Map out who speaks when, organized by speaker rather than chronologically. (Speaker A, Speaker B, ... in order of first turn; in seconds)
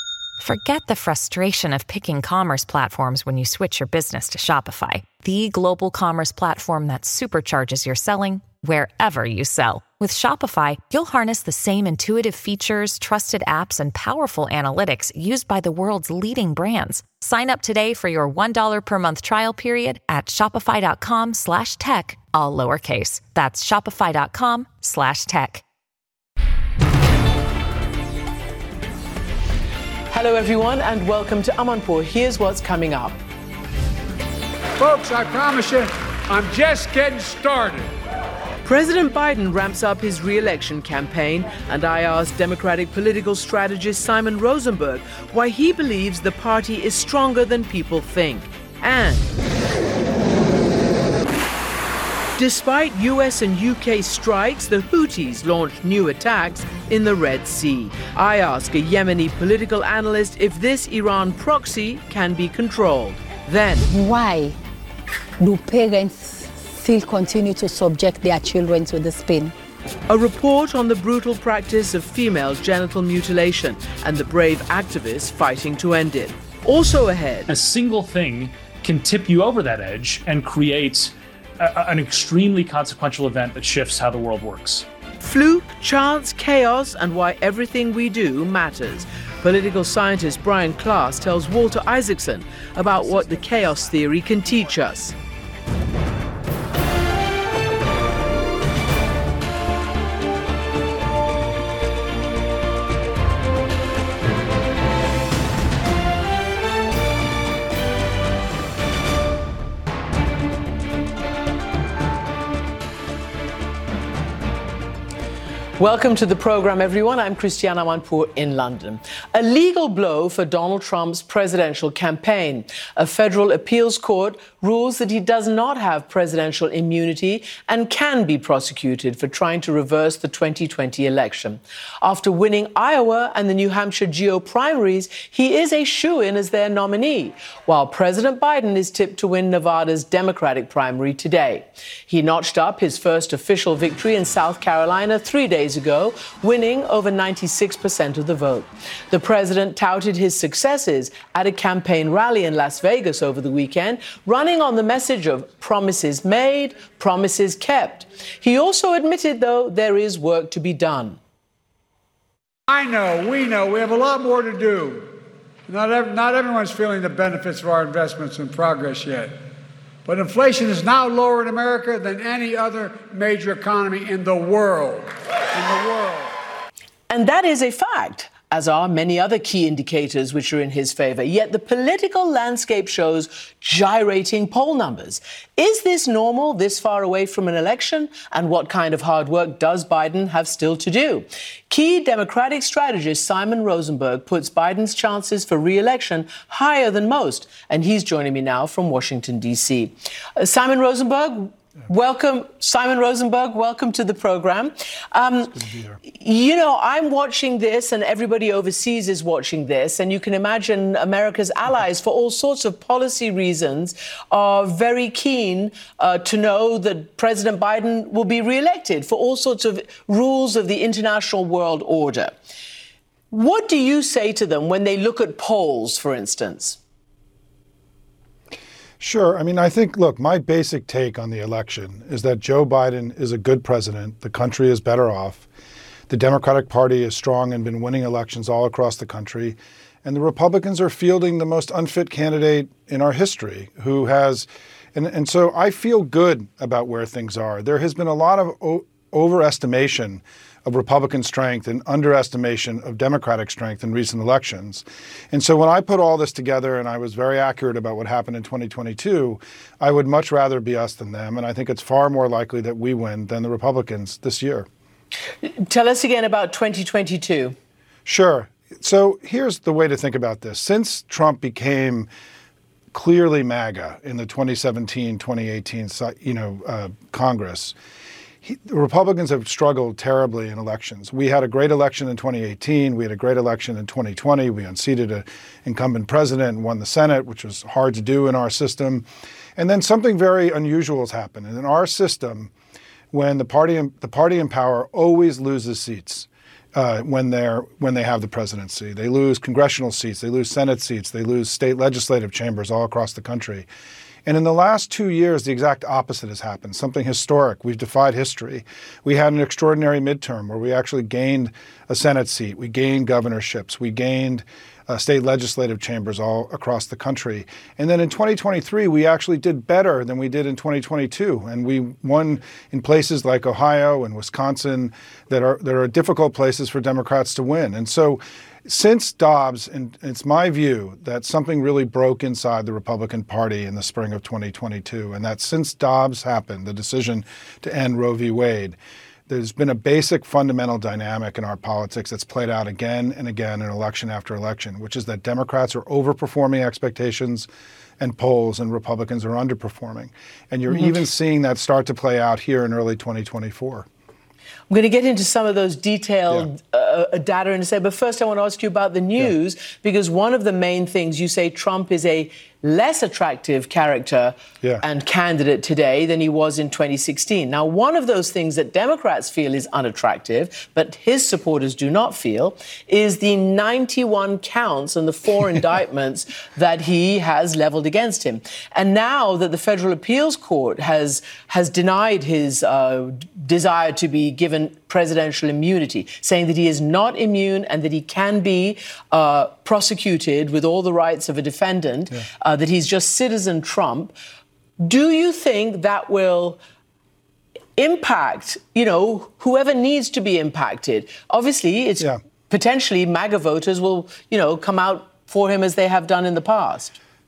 Speaker A: 0.4-25.6
Speaker B: 30.1-33.2, 38.6-49.3, 52.4-63.9, 70.1-77.5, 85.2-95.1, 115.8-161.2, 177.1-222.3, 223.3-226.8, 265.4-267.5, 354.7-394.1, 394.8-396.6, 397.8-407.0
Speaker C: 34.8-37.9, 162.7-169.4, 170.1-176.3
Speaker D: 63.9-64.6, 65.4-69.5
Speaker E: 77.5-84.8
Speaker F: 205.5-206.0, 229.0-235.5, 236.1-264.7, 268.1-272.1, 272.9-277.7, 278.4-289.1, 289.6-292.5, 293.1-303.7, 304.2-338.8, 339.3-353.9